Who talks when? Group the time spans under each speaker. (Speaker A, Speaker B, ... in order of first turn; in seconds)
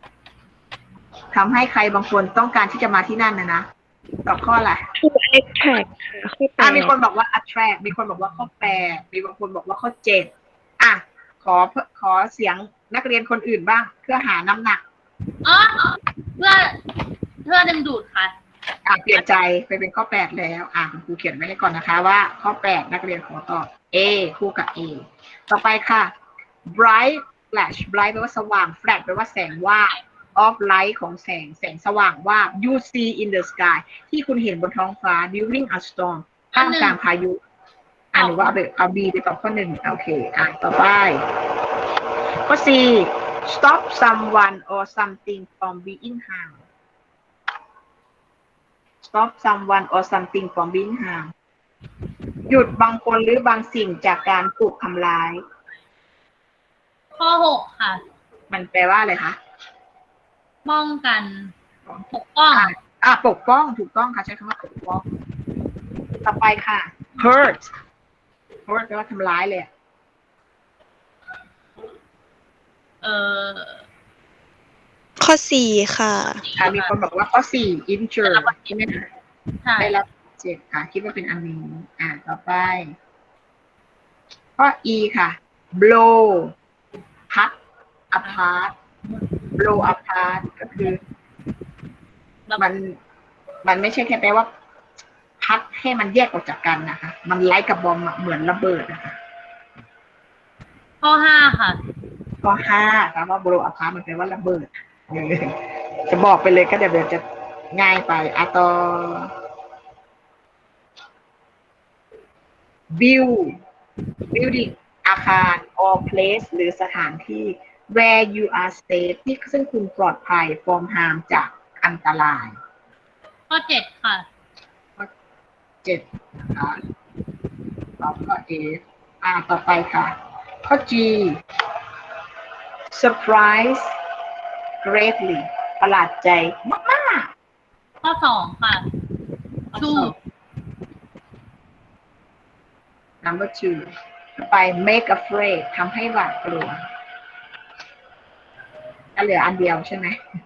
Speaker A: 1.3-3.6, 4.2-4.8, 6.6-14.8, 18.9-26.1, 26.7-37.4, 38.1-41.2, 42.5-46.6, 49.0-51.3, 52.5-55.4, 58.5-59.4, 61.9-65.1, 66.2-67.7, 68.7-69.7, 76.5-79.1, 79.8-82.9, 84.6-86.5, 87.3-87.5, 88.1-88.7, 89.6-91.0, 92.6-92.9, 93.6-94.5, 95.4-99.2, 102.4-109.3, 112.9-113.6, 114.3-122.6, 125.8-126.8, 128.0-130.1, 130.6-131.4, 132.9-133.9, 134.8-137.3, 139.7-140.1, 143.2-146.8, 149.2-150.2
Speaker B: 5.0-6.9, 75.2-76.4
Speaker C: 15.4-16.8, 17.4-18.3, 36.5-37.0, 38.1-38.5, 57.1-58.0, 60.6-61.5, 62.1-62.7, 73.0-73.8, 76.6-76.9, 78.2-78.7, 101.0-101.8, 123.5-124.2, 138.0-138.9, 139.7-140.1